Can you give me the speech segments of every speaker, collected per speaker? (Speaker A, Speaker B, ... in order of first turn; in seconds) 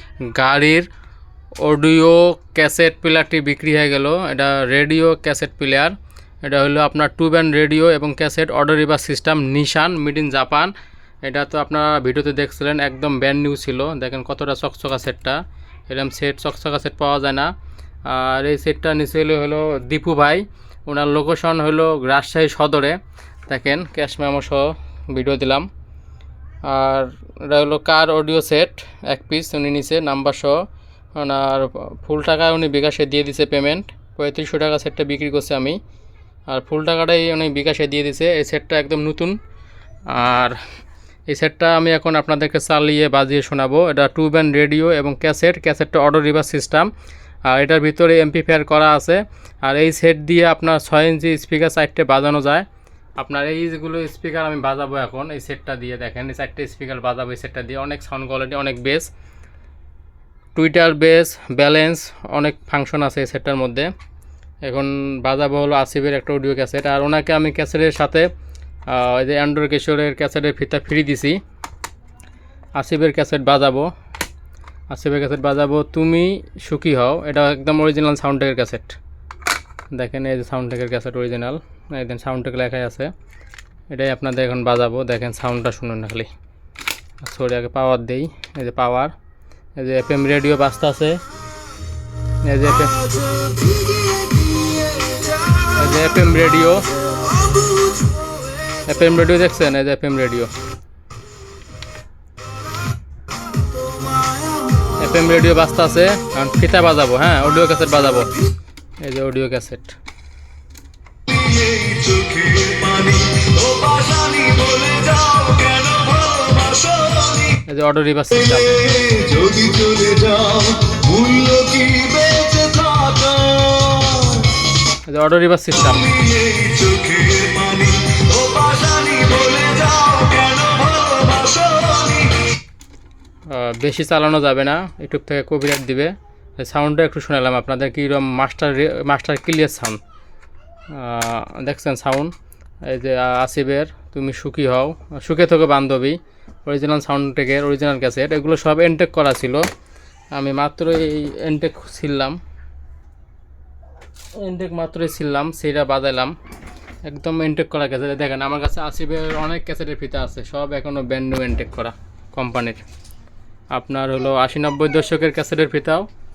Speaker A: 0.3-0.9, 1.6-17.5, 18.1-25.7, 26.6-35.8, 36.5-39.4, 40.1-40.6, 41.3-46.9, 47.5-52.7, 53.2-59.1, 60.5-63.9, 64.6-68.3, 68.9-71.4, 72.8-73.9, 74.9-79.0, 79.9-83.1, 83.9-86.3, 87.2-89.1, 89.8-91.2, 92.4-93.0, 95.6-96.9, 98.8-100.5, 105.0-108.3, 109.0-110.0, 117.6-118.8, 125.1-126.2, 133.5-140.0, 140.9-142.3, 142.8-149.7, 150.3-152.4, 154.4-156.3, 157.1-162.8, 163.7-166.1
Speaker B: 111.3-117.5, 118.8-124.5, 126.2-132.3